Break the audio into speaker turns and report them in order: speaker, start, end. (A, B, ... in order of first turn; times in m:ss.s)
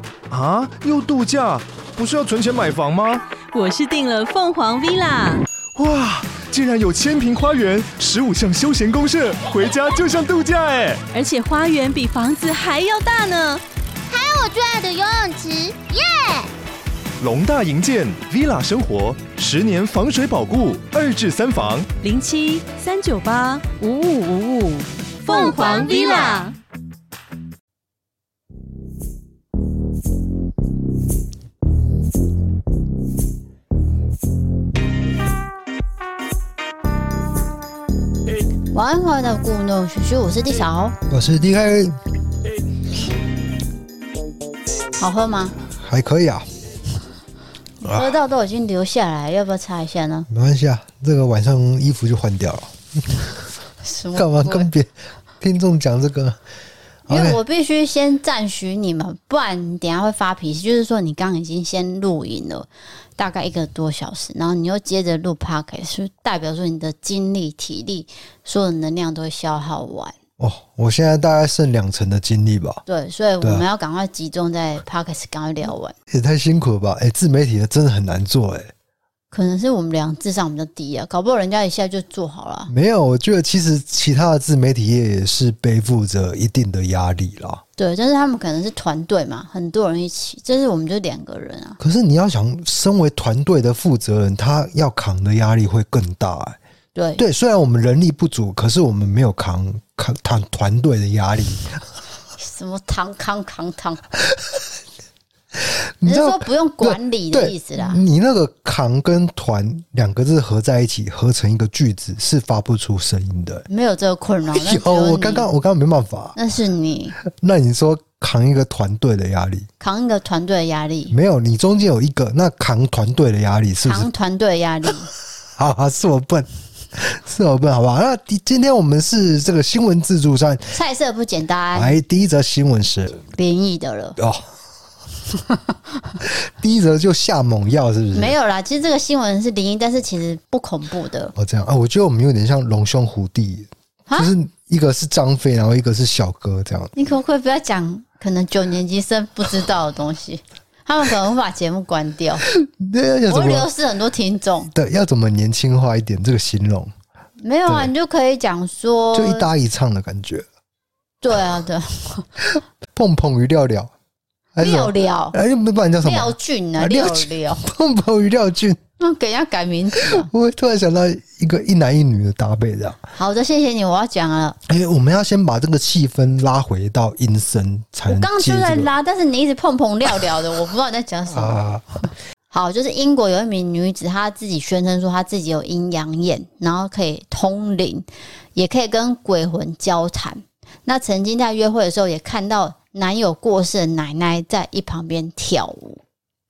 0:00.3-0:03.2 A
0:03.5-0:05.4 B
0:05.8-0:11.0 A
0:11.1-0:13.6 B
0:14.1-0:16.5 C
0:17.2-0:21.9 A
0:22.0-0:26.5 B
0:25.3-0:26.5 C
0:38.7-0:41.0 D
0:41.1-0:42.0 E
0:45.0-0:45.6 D
0:45.8-0:46.5 E
0:47.8-0:50.3 D
0:47.8-0:48.1 E
0:50.3-0:53.4 E
0:53.8-0:54.7 D
0:54.2-0:56.4 E
0:57.1-0:57.4 E
0:57.1-1:10.1 D
1:10.4-1:12.8 E
1:12.9-1:16.0 D
1:16.1-1:18.7 E
1:19.3-1:22.7 D
1:22.7-1:27.6 E
1:27.8-1:31.8 D
1:31.8-1:36.6 E
1:37.0-1:37.2 D
1:37.2-1:41.8 E
1:42.4-1:44.0 D
1:44.3-1:44.6 E
1:45.6-1:53.7 E
1:46.0-1:48.0 D
1:53.7-1:55.5 D
1:54.5-1:56.4 E
1:56.4-1:57.2 D
1:57.2-1:59.7 E
1:59.8-2:01.1 D
2:01.1-2:04.1 E
2:03.8-2:05.1 D
2:05.6-2:10.8 E
2:10.7-2:12.0 D
2:11.7-2:13.3 E
2:13.3-2:14.2 D
2:14.2-2:14.5 E
2:16.2-2:18.4 E
2:18.1-2:21.3 D
2:21.4-2:26.9 E
2:27.0-2:32.5 D
2:32.5-2:33.7 E
2:33.3-2:34.7 D
2:34.7-2:36.9 E
2:37.4-2:39.5 D
2:39.1-2:40.5 E
2:41.2-2:42.3 D
2:43.0-2:43.9 E
2:44.6-2:48.8 E
2:44.6-2:45.4 D
2:46.0-2:47.6 D
2:49.0-2:50.3 D
2:50.1-2:53.0 E
2:53.2-2:54.6 D
2:54.7-2:58.9 E
2:58.1-3:01.6 D
3:01.3-3:02.0 E
3:02.5-3:16.0 D